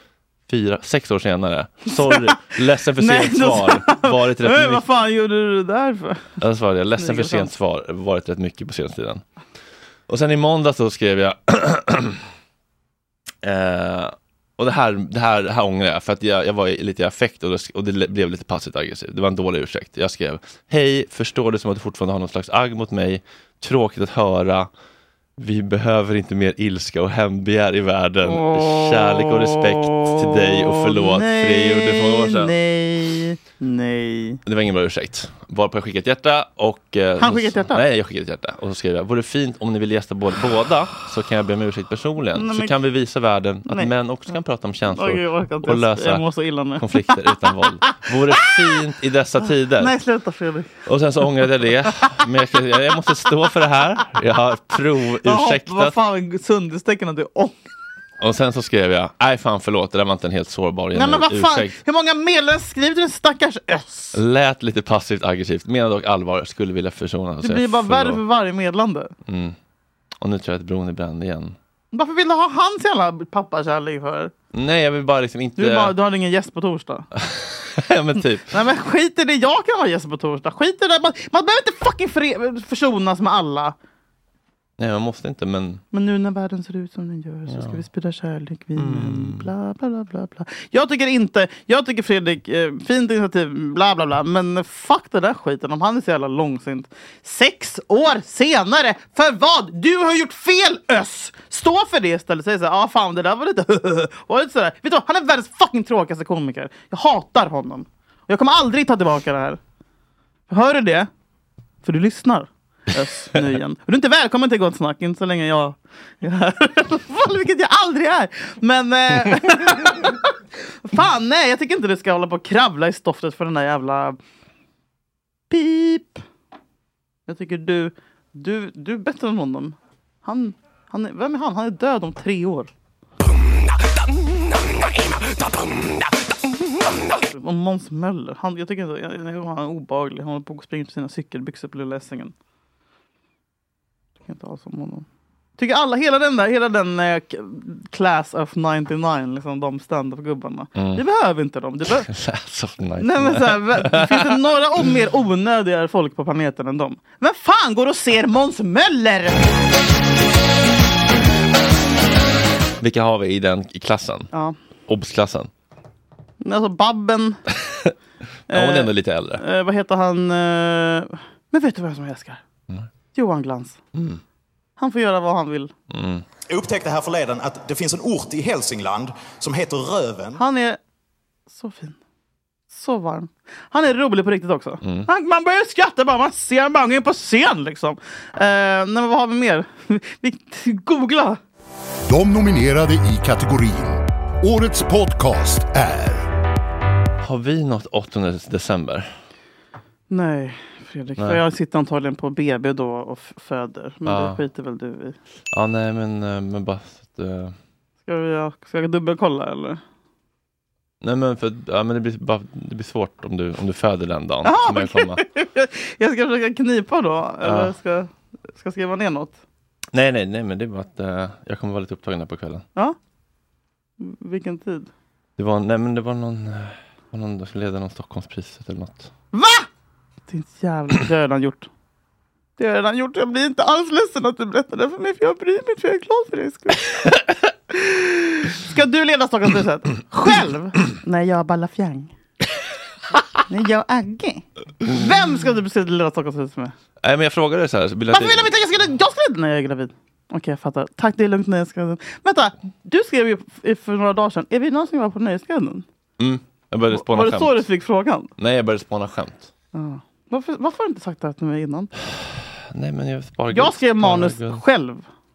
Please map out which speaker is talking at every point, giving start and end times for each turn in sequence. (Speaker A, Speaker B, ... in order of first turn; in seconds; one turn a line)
Speaker A: 0.5-4.8
Speaker B: 2.0-2.3
Speaker B: 3.0-6.4
Speaker A: 6.4-9.2
Speaker B: 7.0-7.5
Speaker A: 10.1-12.2
Speaker A: 13.4-24.7
Speaker A: 25.4-32.5
Speaker B: 28.2-34.4
Speaker A: 34.4-49.9
Speaker B: 37.2-37.8
Speaker B: 42.3-42.7
Speaker B: 44.9-47.2
Speaker B: 49.8-50.7
Speaker A: 50.9-56.0
Speaker B: 55.2-57.6
Speaker A: 58.2-61.8
Speaker B: 60.9-64.2
Speaker A: 64.1-68.2
Speaker B: 67.4-69.1
Speaker A: 69.3-69.5
Speaker A: 70.2-71.5
Speaker B: 71.9-74.3
Speaker A: 74.5-75.9
Speaker B: 75.6-77.1
Speaker A: 77.1-78.5
Speaker B: 78.5-83.7
Speaker A: 84.8-85.8
Speaker B: 85.9-109.6
Speaker A: 87.5-87.8
Speaker A: 88.8-89.5
Speaker B: 110.5-111.1
Speaker B: 111.8-120.3
Speaker B: 120.8-124.2
Speaker B: 125.5-126.2
Speaker B: 127.3-132.7
Speaker B: 137.2-142.3
Speaker B: 144.2-145.1
Speaker B: 145.6-152.1
Speaker A: 150.8-151.0
Speaker A: 152.1-154.3
Speaker B: 153.0-159.4
Speaker A: 162.8-164.3
Speaker A: 164.9-165.5
Speaker B: 166.4-167.4
Speaker A: 167.7-167.9
Speaker A: 168.5-169.4
Speaker B: 168.5-172.4
Speaker B: 173.1-173.8
Speaker A: 173.9-174.2
Speaker B: 174.8-175.7
Speaker A: 175.9-176.2
Speaker C: 176.5-180.4
Speaker B: 180.4-180.8
Speaker B: 181.5-182.0
Speaker B: 182.7-191.4
Speaker A: 184.8-185.1
Speaker D: 192.1-196.2
Speaker A: 197.2-199.1
Speaker B: 200.1-205.2
Speaker A: 204.0-204.4
Speaker A: 205.5-207.6
Speaker B: 208.0-209.8
Speaker A: 211.0-215.2
Speaker B: 214.4-219.4
Speaker A: 217.4-217.7
Speaker A: 219.9-222.7
Speaker B: 224.0-224.9
Speaker A: 225.4-229.1
Speaker B: 229.3-229.7
Speaker B: 230.3-231.7
Speaker B: 232.6-237.1
Speaker B: 237.7-242.1
Speaker B: 243.5-246.7
Speaker A: 247.0-248.5
Speaker B: 248.1-255.8
Speaker A: 256.2-257.6
Speaker B: 256.9-258.3
Speaker A: 258.4-259.5
Speaker B: 259.7-261.9
Speaker A: 262.7-264.6
Speaker B: 263.5-265.0